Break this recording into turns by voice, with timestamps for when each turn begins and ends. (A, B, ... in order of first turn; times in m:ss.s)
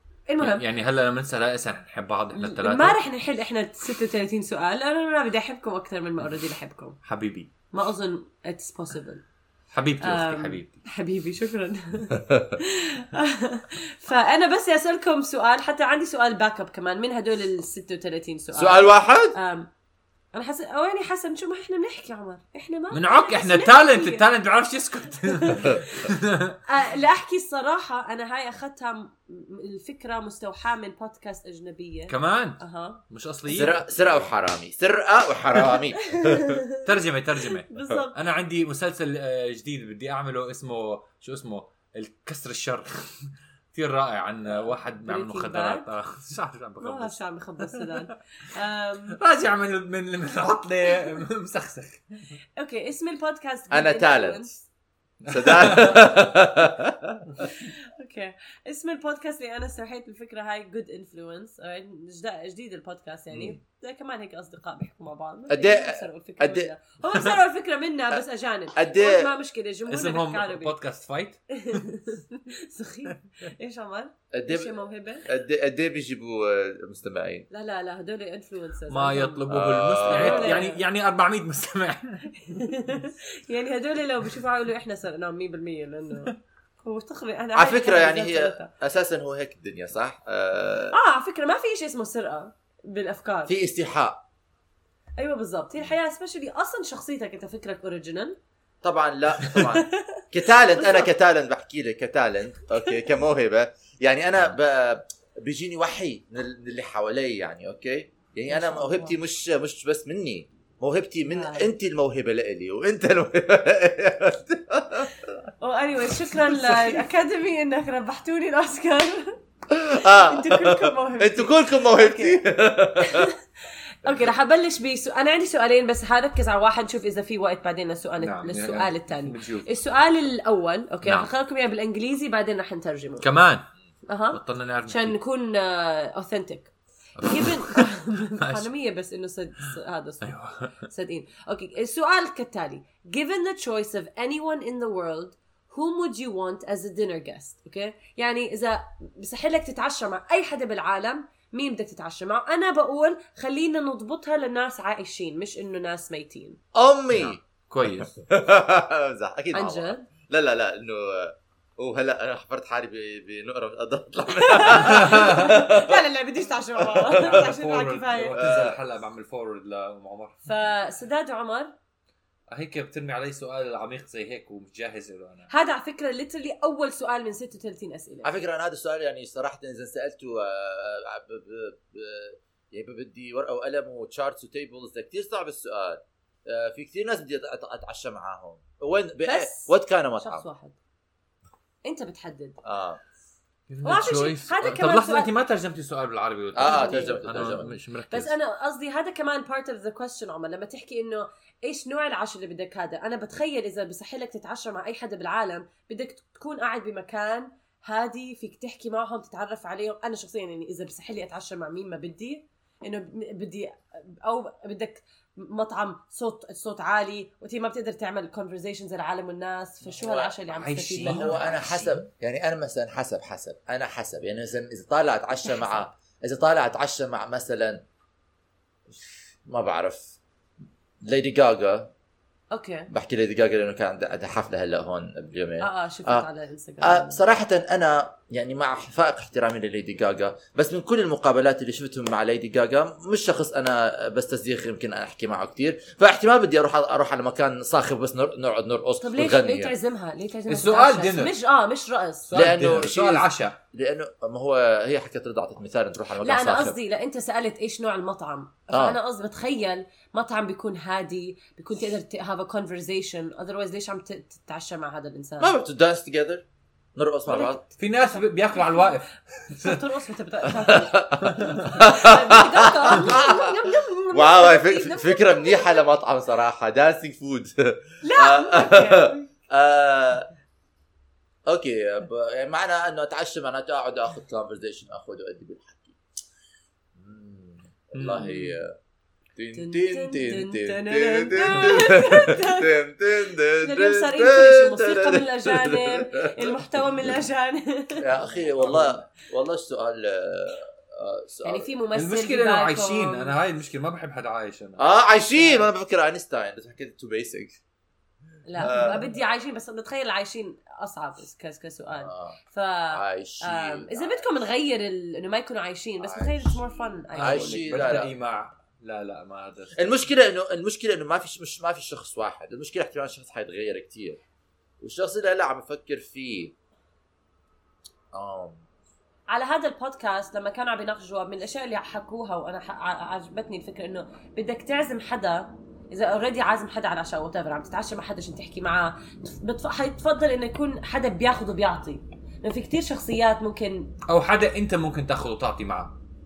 0:00.3-0:00.6 A
0:00.4-0:03.0 B
0:02.3-0:07.0 A
0:07.0-0:07.5 B
0:07.7-0:09.2 A
0:09.7-0:10.8 B
0:10.0-0:19.7 A
0:12.2-0:12.6 C
0:18.5-0:19.4 C
0:20.3-0:24.2 A
0:22.9-0:26.6 B
0:25.2-0:26.1 A
0:26.6-0:33.0 A
0:32.1-0:34.3 B
0:33.5-0:36.6 C
0:36.1-0:36.8 A
0:36.8-0:48.0 B
0:37.7-0:38.2 A
0:44.5-0:45.8 A
0:46.8-0:49.2 A
0:49.1-0:52.0 B
0:52.6-0:54.6 A
0:53.7-0:54.5 C
0:55.2-0:56.2 B
0:55.3-0:57.4 C
0:57.4-1:10.7 A
1:05.5-1:06.7 C
1:08.7-1:09.3 C
1:09.9-1:12.0 B
1:11.5-1:15.3 A
1:14.3-1:14.7 C
1:15.2-1:17.5 C
1:17.5-1:19.4 A
1:18.9-1:22.4 B
1:19.5-1:20.6 C
1:20.0-1:20.8 A
1:22.4-1:28.7 A
1:27.5-1:31.0 C
1:30.9-1:33.5 A
1:33.5-1:34.2 C
1:35.2-1:38.4 A
1:38.8-1:55.5 C
1:39.6-1:40.2 A
1:40.7-1:41.1 A
1:48.5-1:49.2 A
1:51.3-1:51.7 A
1:55.6-1:59.4 A
1:59.7-2:03.3 C
1:59.9-2:02.4 A
2:03.0-2:03.4 A
2:04.0-2:13.3 A
2:08.2-2:09.7 B
2:11.0-2:11.3 B
2:13.2-2:13.7 B
2:14.1-2:36.6 A
2:14.3-2:15.2 B
2:17.2-2:17.9 B
2:18.4-2:18.7 B
2:20.2-2:20.9 B
2:36.7-2:46.0 C
2:37.1-2:38.1 B
2:39.5-2:40.0 A
2:44.4-2:48.4 A
2:45.0-2:45.3 B
2:46.8-2:47.5 C
2:47.1-2:50.5 B
2:48.4-2:48.8 C
2:50.4-2:51.7 A
2:52.5-2:55.5 B
2:55.5-2:58.3 A
2:58.2-3:10.4 C
3:09.2-3:10.7 A
3:11.8-3:12.6 A
3:12.6-3:13.0 C
3:13.7-3:18.3 B
3:13.8-3:15.3 A
3:16.5-3:17.8 C
3:16.6-3:17.2 A
3:18.1-3:41.4 A
3:39.8-3:40.3 C
3:40.5-3:42.0 B
3:41.0-3:47.8 C
3:45.5-3:45.8 A
3:48.9-3:50.1 C
3:51.0-3:51.9 C
3:52.5-3:52.9 A
3:52.9-3:56.3 C
3:55.6-3:57.2 A
3:56.8-4:09.7 C
4:09.0-4:12.3 A
4:10.5-4:11.3 B
4:12.3-4:13.6 B
4:12.3-4:16.8 C
4:16.2-4:25.5 A
4:18.7-4:19.0 C
4:25.4-4:26.4 C
4:27.0-4:27.6 C
4:27.3-4:29.0 A
4:27.8-4:29.8 B
4:29.5-4:35.8 A
4:30.5-4:40.3 C
4:31.2-4:31.8 B
4:38.0-4:39.3 A
4:41.4-4:46.0 C
4:46.9-4:48.8 C
4:47.9-4:48.6 B
4:49.4-4:56.6 C
4:49.5-4:52.7 A
4:53.5-4:58.1 A
4:58.0-5:01.7 C
4:58.4-4:59.0 B
5:01.4-5:03.3 A
5:01.9-5:04.8 B
5:04.8-5:07.6 C
5:05.4-5:05.7 A
5:08.4-5:18.0 A
5:08.6-5:09.2 C
5:12.0-5:12.4 C
5:12.9-5:14.3 C
5:16.0-5:18.1 C
5:17.1-5:19.8 B
5:19.7-5:24.2 C
5:24.8-5:26.5 C
5:28.1-5:28.6 C
5:29.3-5:43.9 A
5:44.1-5:46.0 B